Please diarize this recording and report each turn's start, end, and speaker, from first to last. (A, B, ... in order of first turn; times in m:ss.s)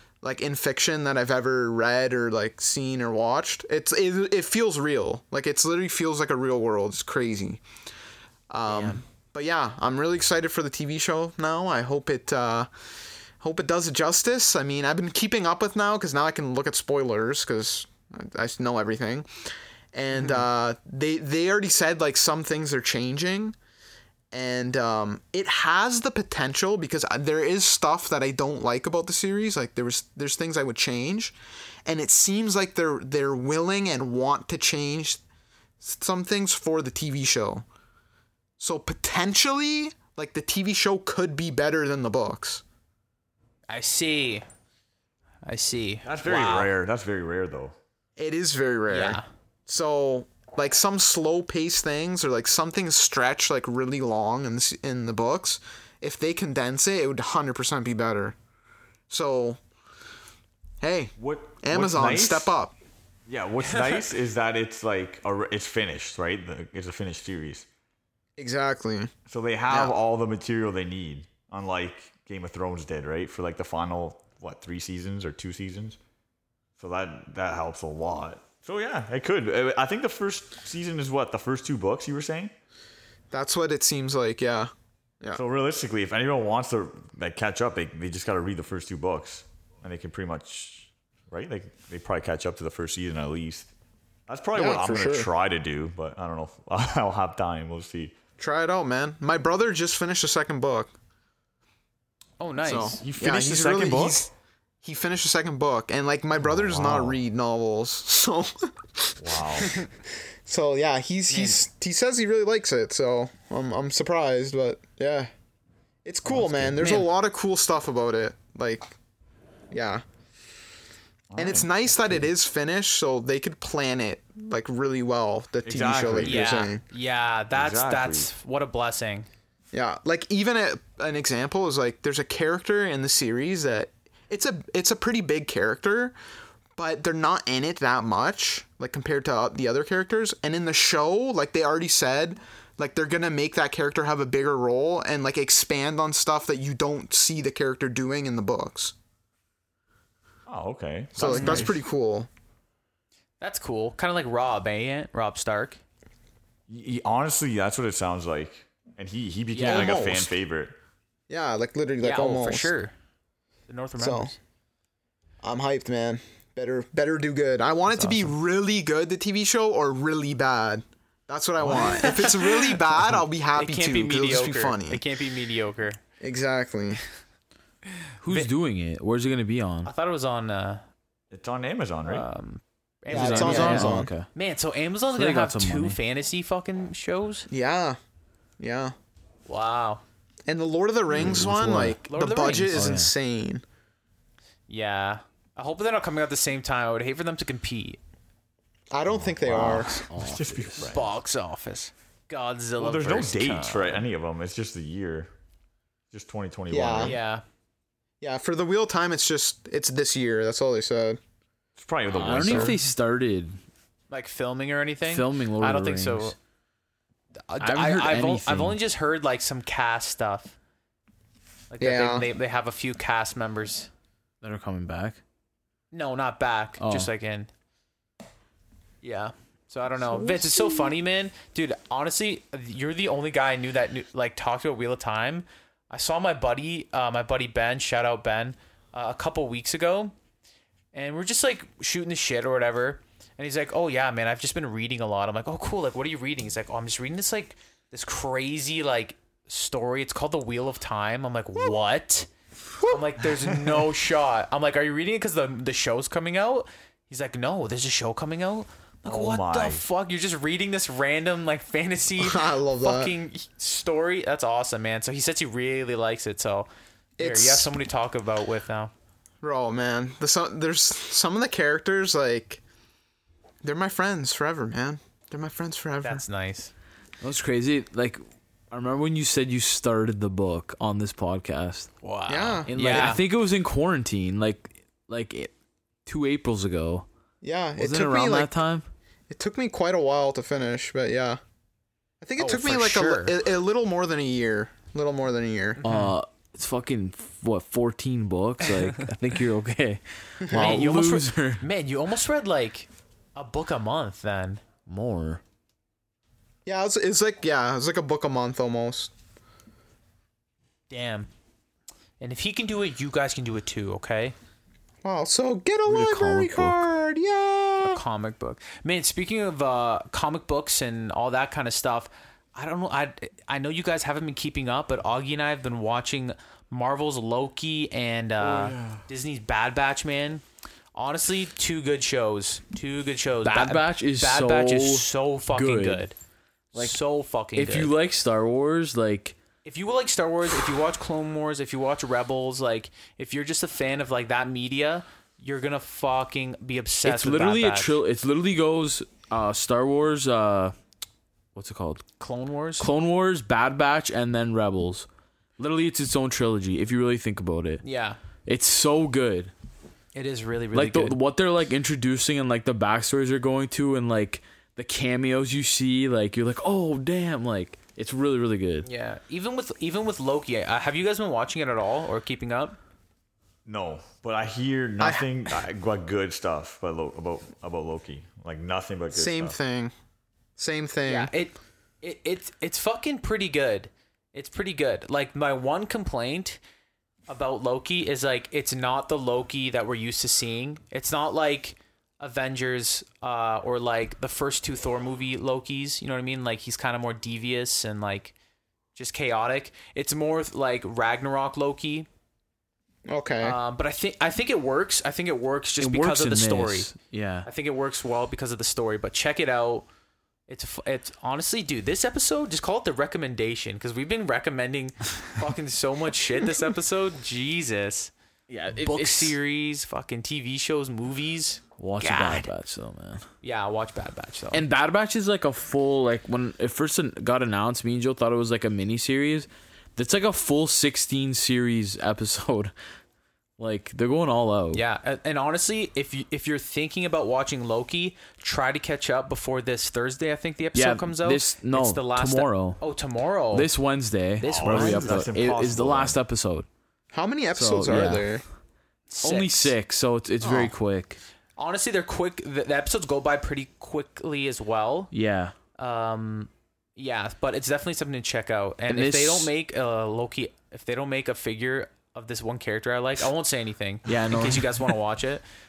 0:00.2-0:07.6 A
0:08.5-0:12.7 A
0:08.7-0:09.0 B
0:13.4-0:19.3 A
0:19.9-0:23.6 A
0:24.3-0:35.2 A
0:35.8-0:37.6 A
0:38.6-0:42.6 A
0:43.7-0:44.4 B
0:45.4-0:46.7 B
0:46.0-0:47.8 C
0:48.2-0:58.4 A
0:48.9-0:49.2 B
0:59.1-0:59.6 A
1:00.8-1:02.7 A
1:01.2-1:02.5 C
1:03.3-1:07.7 C
1:03.6-1:04.0 B
1:08.4-1:09.1 A
1:09.3-1:16.0 C
1:09.7-1:10.0 A
1:16.8-1:22.5 C
1:23.3-1:24.7 A
1:25.3-1:33.7 C
1:34.3-1:38.1 C
1:34.6-1:35.3 A
1:38.4-1:40.9 A
1:42.4-1:43.0 B
1:42.6-1:44.3 A
1:43.0-1:44.3 C
1:44.8-1:49.8 A
1:46.4-1:47.2 C
1:49.2-1:49.8 C
1:50.4-1:55.3 A
1:51.3-1:51.6 B
1:56.0-1:58.9 A
1:56.8-1:57.1 B
1:59.7-2:00.0 A
2:01.3-2:01.7 C
2:01.4-2:06.8 A
2:05.7-2:06.5 C
2:06.2-2:09.3 B
2:07.5-2:08.3 C
2:09.7-2:16.1 A
2:16.8-2:28.9 A
2:30.5-2:31.7 C
2:31.2-2:32.3 A
2:31.3-2:31.7 B
2:33.4-2:35.8 B
2:36.7-2:40.8 C
2:39.5-2:40.0 D
2:39.6-2:40.3 A
2:41.3-2:42.7 A
2:42.0-2:42.9 B
2:43.7-2:44.4 B
2:44.0-2:44.3 A
2:45.4-2:55.0 A
2:47.9-2:48.3 D
2:51.7-2:52.9 B
2:53.6-2:56.0 B
2:56.2-2:57.0 A
2:58.2-2:59.9 D
2:58.2-2:58.5 B
2:59.8-3:00.8 B
3:01.3-3:02.3 C
3:02.1-3:07.5 B
3:03.1-3:04.3 D
3:03.1-3:04.1 A
3:05.1-3:06.0 D
3:07.5-3:08.0 A
3:08.6-3:09.0 A
3:09.5-3:10.0 B
3:10.5-3:13.6 A
3:11.1-3:12.0 D
3:11.7-3:12.9 B
3:12.7-3:13.1 D
3:14.7-3:18.0 B
3:18.9-3:20.0 A
3:19.1-3:21.1 C
3:19.4-3:21.0 D
3:20.9-3:24.0 B
3:22.8-3:25.3 C
3:26.1-3:27.2 C
3:26.7-3:27.2 A
3:27.0-3:27.4 B
3:28.2-3:31.2 A
3:31.8-3:32.8 C
3:32.1-3:33.6 D
3:32.4-3:32.8 A
3:34.1-3:36.4 B
3:35.1-3:36.4 D
3:37.5-3:40.6 B
3:37.6-3:38.8 D
3:41.7-3:43.9 B
3:41.8-3:42.3 A
3:44.4-3:45.2 D
3:45.9-3:47.5 B
3:46.8-3:47.1 D
3:49.0-4:00.1 B
3:50.2-3:50.6 A
4:00.9-4:12.3 B
4:12.8-4:28.9 B
4:13.5-4:13.8 A
4:19.0-4:19.8 C
4:22.2-4:23.1 A
4:27.2-4:27.7 A
4:29.4-4:32.6 A
4:33.6-4:36.2 A
4:36.0-4:36.7 B
4:37.2-4:41.9 D
4:42.0-4:43.2 B
4:42.3-4:43.2 A
4:42.7-4:45.5 D
4:46.1-4:47.1 D
4:47.4-4:48.6 A
4:47.8-4:48.9 D
4:49.3-4:51.4 A
4:52.2-4:55.8 A
4:52.4-4:53.4 B
4:55.8-4:56.1 B
4:55.8-5:01.6 D
5:00.4-5:00.8 A
5:00.5-5:04.6 B
5:04.9-5:05.4 D
5:06.7-5:09.1 A
5:10.9-5:11.3 B
5:12.2-5:14.4 B
5:15.0-5:18.0 A
5:15.9-5:16.9 D
5:17.8-5:30.4 B
5:28.4-5:29.0 D
5:31.0-5:36.1 B
5:33.4-5:36.0 D
5:36.7-5:37.9 B
5:36.7-5:37.0 D
5:37.6-5:39.4 D
5:39.6-5:48.0 B
5:47.0-5:50.7 D
5:51.6-5:52.0 D
5:52.2-5:52.9 B
5:52.8-5:55.1 D
5:55.6-5:57.8 D
5:57.8-5:58.2 B
5:58.4-5:59.5 D
6:00.1-6:01.2 B
6:00.7-6:08.9 D
6:08.8-6:12.8 B
6:13.7-6:19.6 C
6:15.0-6:15.3 A
6:19.1-6:19.9 A
6:20.6-6:21.3 A
6:21.1-6:26.6 B
6:27.3-6:38.3 B
6:39.0-6:42.1 B
6:43.1-6:43.6 A
6:43.4-6:46.9 B
6:45.8-6:47.5 D
6:47.4-6:49.9 B
6:50.5-6:58.1 B
6:58.5-6:59.4 D
6:58.7-7:02.5 B
7:01.8-7:03.2 D
7:03.4-7:04.6 B
7:04.5-7:12.7 D
7:13.6-7:14.8 D
7:14.7-7:23.7 B
7:20.8-7:22.8 D
7:23.5-7:26.7 D
7:24.4-7:25.3 B
7:24.4-7:26.2 C
7:27.1-7:28.4 A
7:27.5-7:28.4 D
7:29.1-7:29.8 B
7:29.2-7:31.2 D
7:30.4-7:30.7 A
7:31.6-7:35.1 B
7:35.1-7:35.5 D
7:35.8-7:45.4 B
7:38.9-7:39.5 D
7:44.1-7:44.9 D